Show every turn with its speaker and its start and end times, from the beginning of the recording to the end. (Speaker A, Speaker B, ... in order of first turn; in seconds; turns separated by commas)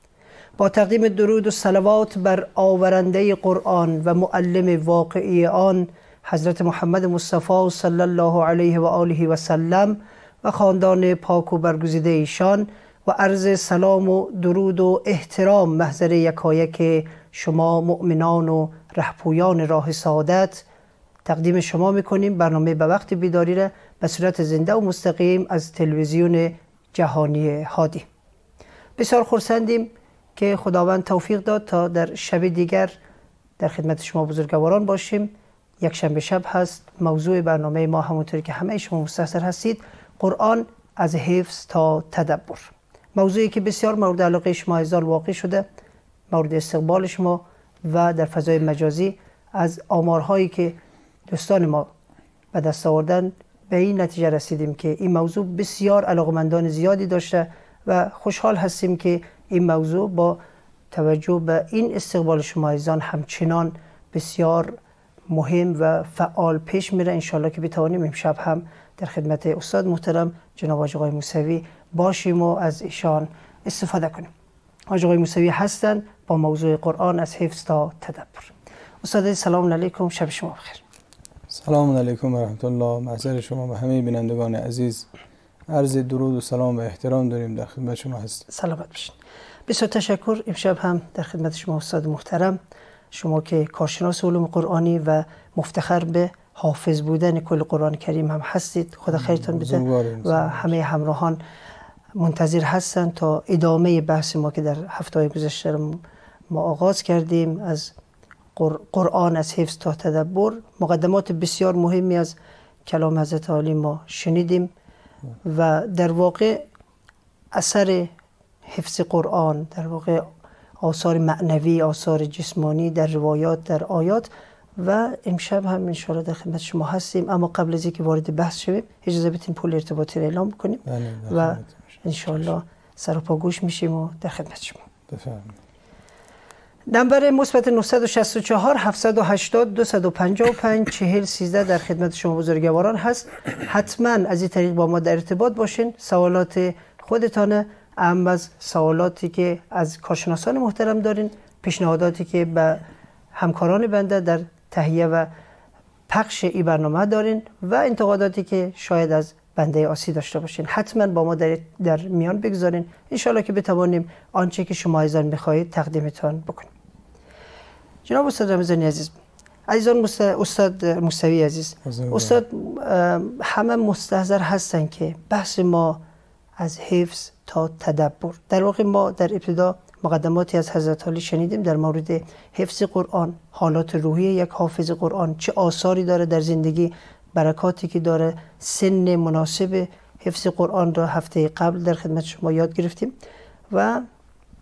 Speaker A: 0.6-20.6, Speaker A: 21.2-28.1, Speaker A: 29.0-32.9, Speaker A: 33.6-45.7, Speaker A: 46.3-51.9, Speaker A: 52.5-60.4, Speaker A: 60.9-64.8, Speaker A: 65.3-74.3, Speaker A: 74.9-80.8, Speaker B: 81.5-85.1, Speaker B: 85.7-88.5, Speaker A: 88.5-89.2, Speaker A: 89.7-92.6, Speaker A: 93.1-101.4, Speaker B: 99.1-100.8, Speaker A: 102.2-108.0, Speaker A: 108.6-114.7, Speaker A: 115.5-116.7, Speaker A: 117.5-118.1, Speaker A: 118.7-120.3, Speaker A: 120.8-134.8, Speaker B: 130.9-132.0, Speaker B: 135.1-135.6, Speaker A: 136.9-155.3, Speaker A: 156.1-166.7, Speaker A: 168.1-169.2, Speaker A: 169.7-176.0, Speaker B: 171.8-172.4, Speaker A: 176.6-193.2, Speaker A: 193.7-194.1